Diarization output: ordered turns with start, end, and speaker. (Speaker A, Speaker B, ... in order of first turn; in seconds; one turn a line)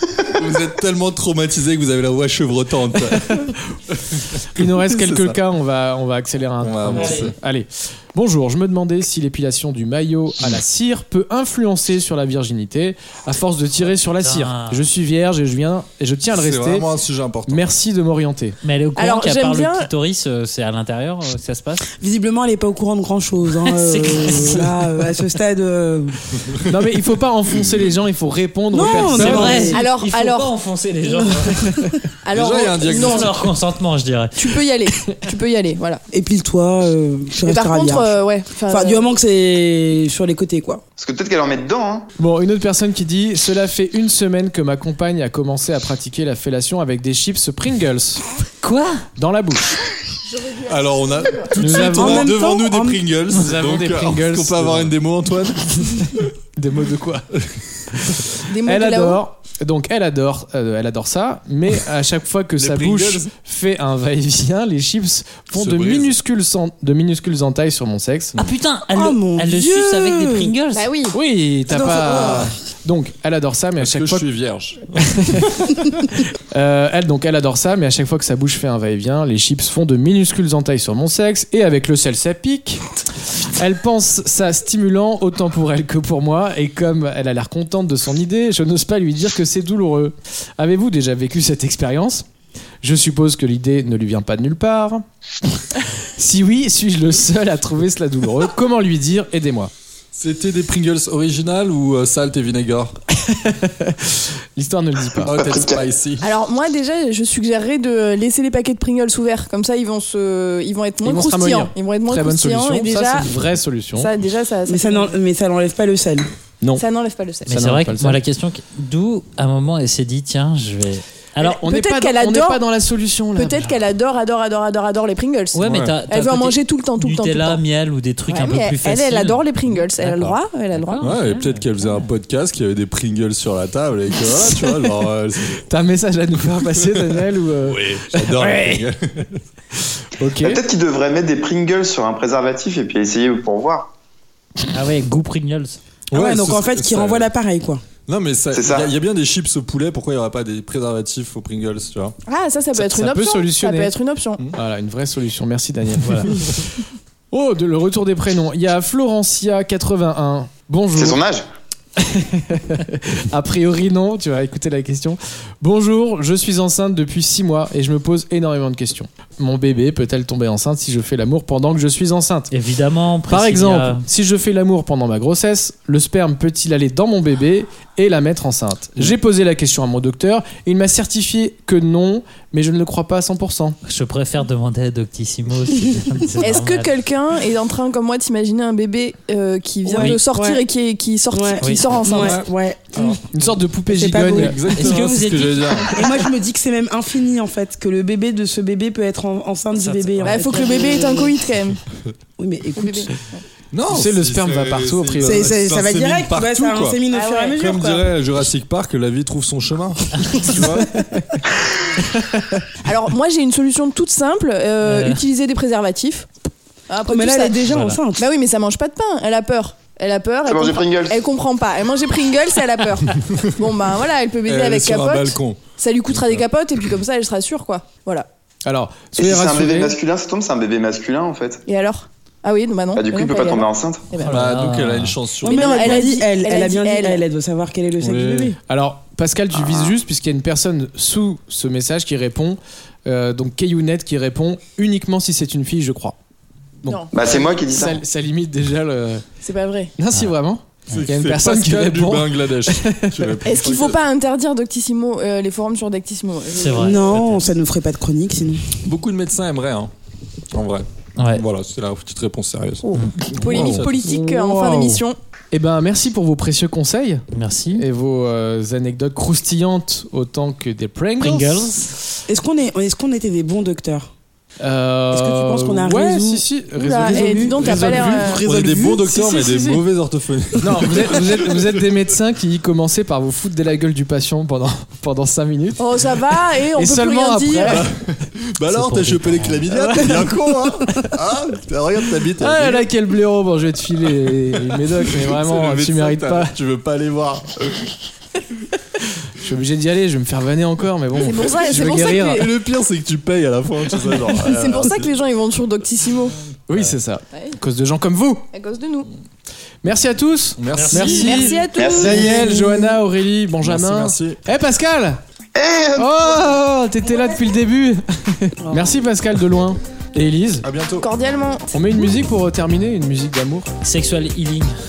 Speaker A: 0.3-3.5
Speaker B: 3.0-3.5
Speaker A: 4.1-5.4
Speaker B: 4.5-16.9
Speaker A: 6.6-7.3
Speaker C: 6.9-7.3
Speaker C: 14.2-14.9
Speaker A: 16.3-17.7
Speaker B: 17.5-18.6
Speaker C: 18.6-21.9
Speaker D: 19.0-19.9
Speaker E: 21.9-26.2
Speaker C: 23.8-24.4
Speaker B: 26.7-29.7
Speaker E: 28.7-29.8
Speaker C: 29.1-31.7
Speaker D: 29.7-30.5
Speaker D: 32.2-33.4
Speaker A: 32.3-33.3
Speaker C: 32.8-34.3
Speaker D: 34.4-36.0
Speaker E: 36.1-40.8
Speaker D: 37.4-39.0
Speaker F: 41.0-42.1
Speaker B: 42.2-48.2
Speaker C: 48.6-49.0
Speaker B: 49.2-49.8
Speaker D: 50.3-51.5
Speaker A: 50.6-56.2
Speaker B: 51.5-52.3
Speaker E: 51.9-53.0
Speaker B: 53.3-54.9
Speaker B: 56.5-57.3
Speaker B: 57.9-68.3
Speaker D: 58.5-59.2
Speaker A: 62.6-63.3
Speaker A: 65.5-66.1
Speaker C: 68.3-70.9
Speaker E: 68.9-70.5
Speaker D: 70.7-71.2
Speaker B: 71.1-74.2
Speaker E: 71.7-72.5
Speaker A: 73.8-75.3
Speaker B: 75.0-75.6
Speaker B: 76.5-92.2
Speaker B: 92.8-95.0
Speaker B: 96.1-99.7
Speaker A: 100.1-102.9
Speaker B: 103.1-105.3
Speaker A: 105.2-106.2
Speaker F: 105.3-105.8
Speaker D: 106.2-113.3
Speaker B: 111.0-114.1
Speaker D: 113.9-115.2
Speaker E: 114.7-116.2
Speaker D: 116.8-117.5
Speaker B: 117.5-118.2
Speaker C: 117.5-121.6
Speaker B: 121.5-123.6
Speaker D: 121.5-122.6
Speaker D: 123.3-127.6
Speaker C: 125.5-129.4
Speaker A: 125.7-125.9
Speaker D: 128.3-131.1
Speaker C: 130.0-132.1
Speaker A: 131.0-135.7
Speaker B: 135.7-138.8
Speaker A: 137.6-139.4
Speaker B: 140.2-140.6
Speaker F: 140.4-143.9
Speaker C: 144.7-145.8
Speaker A: 146.1-147.3
Speaker E: 146.1-147.8
Speaker A: 148.1-152.2
Speaker F: 148.5-148.9
Speaker D: 152.3-154.4
Speaker B: 152.7-153.9
Speaker B: 154.5-156.8
Speaker B: 157.3-161.2
Speaker F: 160.9-161.4
Speaker B: 162.0-172.5
Speaker C: 172.5-174.0
Speaker B: 173.3-183.8
Speaker C: 183.8-186.9
Speaker D: 186.4-192.4
Speaker E: 189.8-190.6
Speaker E: 191.3-193.2
Speaker C: 191.6-191.8
Speaker A: 192.1-192.5
Speaker B: 193.3-194.6
Speaker D: 194.0-194.5
Speaker A: 194.3-195.9
Speaker C: 194.8-195.9
Speaker E: 194.9-195.2
Speaker E: 195.9-201.4
Speaker C: 199.7-200.7
Speaker D: 200.2-201.8
Speaker E: 202.4-203.1
Speaker D: 202.7-203.4
Speaker A: 203.7-207.0
Speaker B: 203.9-205.5
Speaker E: 205.2-208.1
Speaker D: 207.1-207.6
Speaker A: 207.5-210.9
Speaker B: 210.5-211.4
Speaker D: 212.8-216.3
Speaker C: 214.8-215.2
Speaker D: 216.9-217.6
Speaker E: 217.1-218.2
Speaker C: 217.7-218.0
Speaker D: 218.2-228.3
Speaker F: 220.5-221.2
Speaker A: 224.5-226.4
Speaker B: 228.6-230.0
Speaker F: 229.2-231.6
Speaker D: 231.7-234.4
Speaker F: 232.9-234.1
Speaker C: 234.2-235.2
Speaker A: 234.2-236.0
Speaker E: 235.4-238.6
Speaker D: 235.4-237.2
Speaker A: 238.0-238.5
Speaker B: 238.7-246.2
Speaker B: 246.8-249.3
Speaker D: 246.8-247.1
Speaker F: 247.1-248.0
Speaker D: 249.4-249.9
Speaker B: 250.0-253.3
Speaker A: 250.9-254.0
Speaker D: 253.4-257.0
Speaker C: 256.5-257.4
Speaker E: 256.7-258.8
Speaker A: 258.8-259.9
Speaker A: 260.5-264.0
Speaker C: 261.2-261.4
Speaker D: 263.4-265.2
Speaker B: 264.2-271.9
Speaker E: 264.4-264.8
Speaker C: 267.3-267.8
Speaker C: 271.2-271.9
Speaker E: 272.3-274.1
Speaker B: 274.6-279.8
Speaker E: 275.1-276.4
Speaker D: 276.8-278.4
Speaker E: 277.0-278.4
Speaker A: 278.3-281.7
Speaker B: 280.6-285.9
Speaker D: 285.8-287.8
Speaker B: 286.7-287.9
Speaker A: 287.7-292.9
Speaker C: 288.7-289.6
Speaker B: 289.7-290.3
Speaker B: 292.4-296.5
Speaker A: 294.5-297.9
Speaker B: 299.4-302.5
Speaker D: 301.2-302.5
Speaker A: 301.6-305.1
Speaker D: 304.4-306.3
Speaker B: 306.7-308.4
Speaker D: 308.5-309.1
Speaker B: 309.8-315.2
Speaker A: 310.6-311.5
Speaker C: 310.7-311.5
Speaker D: 311.0-312.3
Speaker F: 311.7-312.5
Speaker E: 312.3-313.0
Speaker A: 313.6-314.4
Speaker F: 315.5-316.5
Speaker B: 315.9-320.6
Speaker E: 318.6-319.0
Speaker A: 320.6-321.1
Speaker D: 321.0-321.8
Speaker B: 321.7-323.7
Speaker C: 323.8-324.8